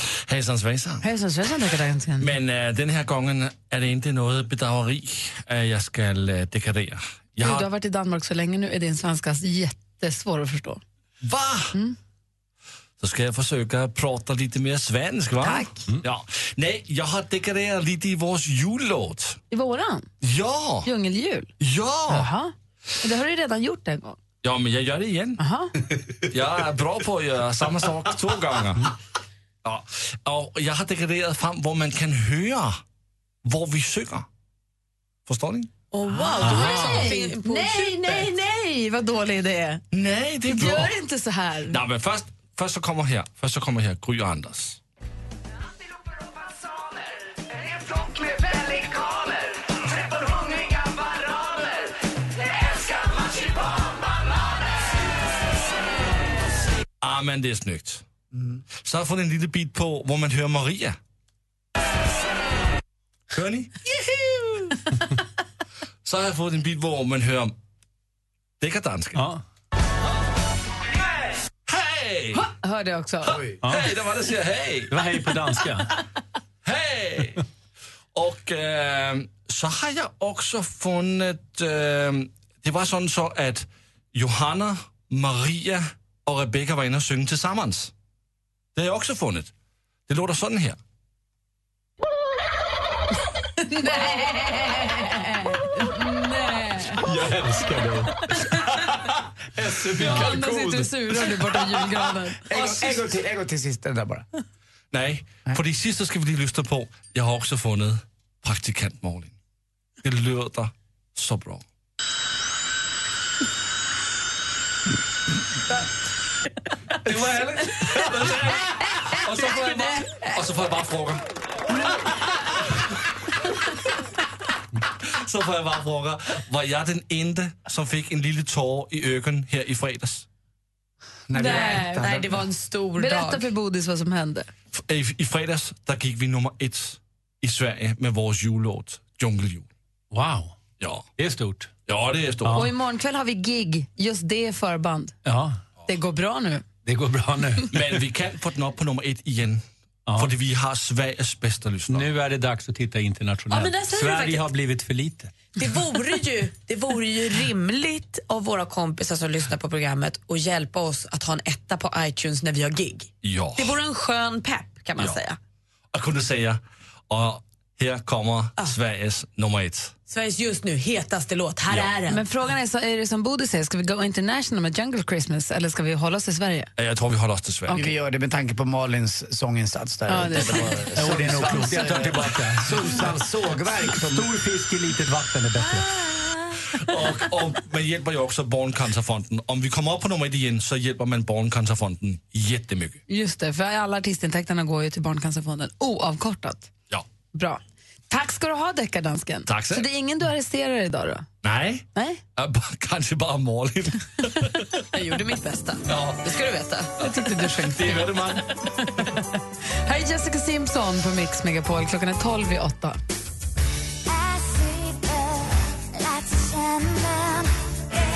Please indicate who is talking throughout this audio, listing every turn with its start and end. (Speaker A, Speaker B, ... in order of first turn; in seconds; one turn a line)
Speaker A: 0.3-1.1
Speaker B: 1.0-2.3
Speaker A: 2.2-7.7
Speaker B: 7.4-10.8
Speaker A: 11.2-11.8
Speaker A: 13.0-19.4
Speaker B: 15.4-15.8
Speaker B: 19.5-20.1
Speaker A: 20.2-20.9
Speaker B: 20.9-21.5
Speaker A: 21.6-22.3
Speaker B: 22.1-24.2
Speaker A: 24.4-25.4
Speaker B: 25.4-25.7
Speaker A: 26.3-28.9
Speaker A: 29.6-32.8
Speaker A: 33.4-34.3
Speaker A: 35.3-35.7
Speaker C: 35.9-38.3
Speaker B: 36.1-39.8
Speaker D: 36.4-37.1
Speaker A: 39.9-41.0
Speaker B: 40.5-41.8
Speaker A: 41.7-44.8
Speaker A: 57.0-58.0
Speaker A: 58.8-61.0
Speaker A: 63.3-63.8
Speaker A: 66.0-67.5
Speaker A: 68.6-69.3
Speaker D: 69.2-69.4
Speaker A: 71.7-72.5
Speaker B: 72.3-73.4
Speaker A: 73.2-75.1
Speaker D: 73.6-73.9
Speaker D: 74.9-76.0
Speaker A: 76.6-77.4
Speaker A: 78.2-87.9
Speaker A: 88.8-89.5
Speaker A: 90.1-90.8
Speaker B: 93.6-97.1
Speaker D: 97.0-98.2
Speaker A: 99.8-100.7
Speaker D: 99.8-100.3
Speaker B: 100.0-102.9
Speaker E: 102.5-104.3
Speaker A: 104.9-109.3
Speaker A: 110.0-111.6
Speaker A: 117.0-121.2
Speaker A: 125.2-130.3
Speaker E: 131.3-132.4
Speaker C: 131.3-133.5
Speaker B: 131.4-132.0
Speaker B: 133.0-134.5
Speaker A: 134.8-139.7
Speaker D: 140.1-140.6
Speaker A: 140.8-141.1
Speaker D: 141.2-141.7
Speaker A: 141.9-142.7
Speaker D: 142.4-142.7
Speaker B: 142.5-145.2
Speaker D: 145.2-145.6
Speaker B: 145.9-146.7
Speaker D: 146.8-147.7
Speaker A: 147.7-152.1
Speaker D: 150.1-150.3
Speaker D: 151.9-155.3
Speaker C: 153.5-154.5
Speaker C: 155.6-165.4
Speaker A: 163.2-163.8
Speaker A: 165.9-169.9
Speaker C: 170.1-172.2
Speaker B: 172.1-176.7
Speaker A: 176.8-177.8
Speaker E: 177.7-184.3
Speaker B: 180.1-180.8
Speaker D: 180.9-183.0
Speaker D: 184.0-185.9
Speaker A: 186.8-193.0
Speaker B: 193.1-196.7
Speaker B: 197.3-201.3
Speaker A: 199.5-199.9
Speaker A: 201.4-204.7
Speaker B: 201.9-202.2
Speaker C: 204.9-207.0
Speaker A: 205.9-206.3
Speaker B: 207.0-208.1
Speaker A: 207.7-208.4
Speaker B: 209.8-213.0